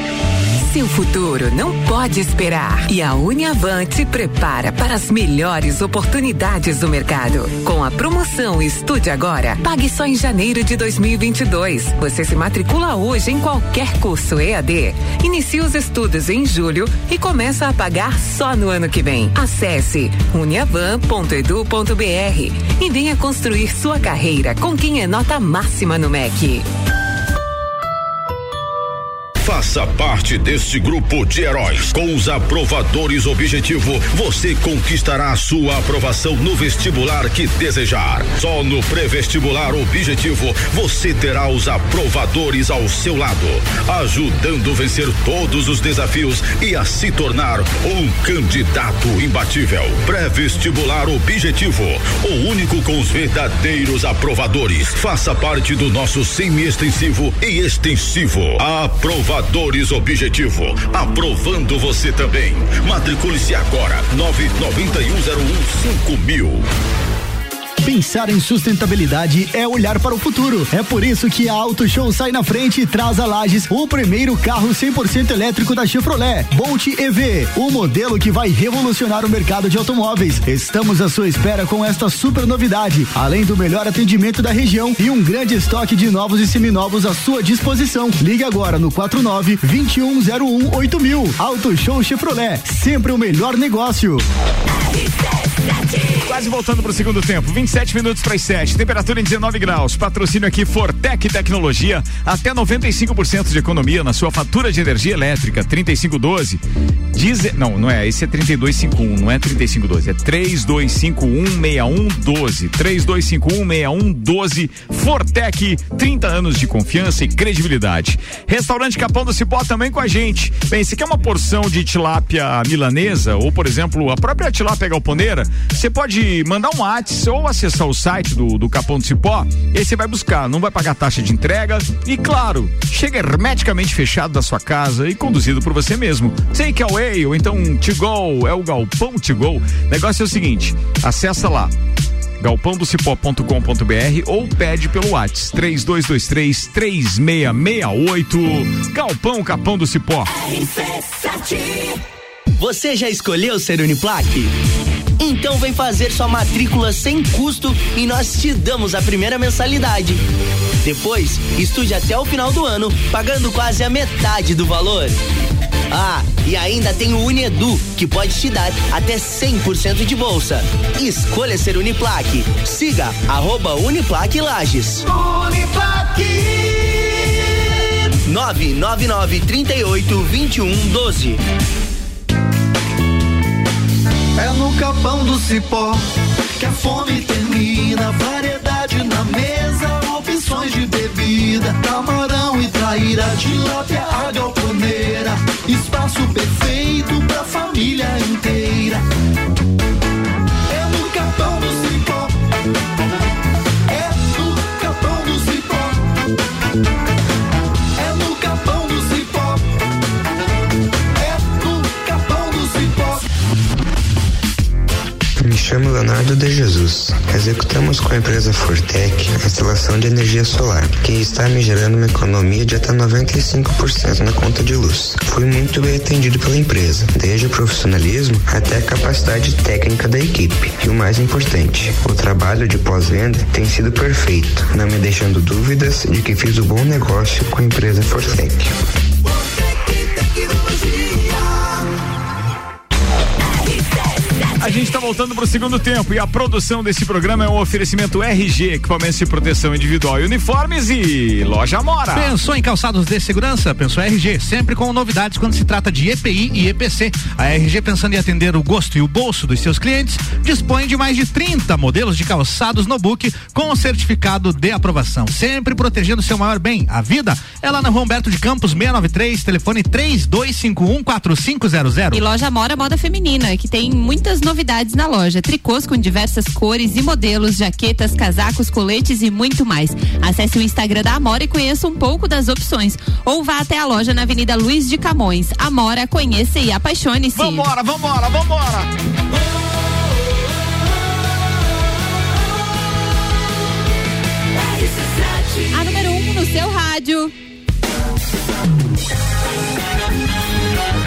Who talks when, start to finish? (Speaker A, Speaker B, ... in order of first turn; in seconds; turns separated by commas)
Speaker A: 0.6-26.7, Speaker B: 29.4-66.7, Speaker C: 67.8-94.2, Speaker D: 96.2-106.6, Speaker D: 107.1-141.7, Speaker D: 142.4-150.3, Speaker E: 152.6-154.5, Speaker E: 155.2-160.2, Speaker E: 160.8-165.2, Speaker E: 165.9-175.1, Speaker E: 178.2-181.4, Speaker F: 184.4-186.0, Speaker F: 186.6-199.0, Speaker F: 200.7-202.3, Speaker F: 204.0-205.8, Speaker F: 208.0-209.6, Speaker F: 211.3-213.1, Speaker G: 215.4-238.8, Speaker D: 244.6-252.3, Speaker H: 252.1-272.2, Speaker I: 272.1-287.7, Speaker D: 287.3-288.9, Speaker I: 295.6-297.3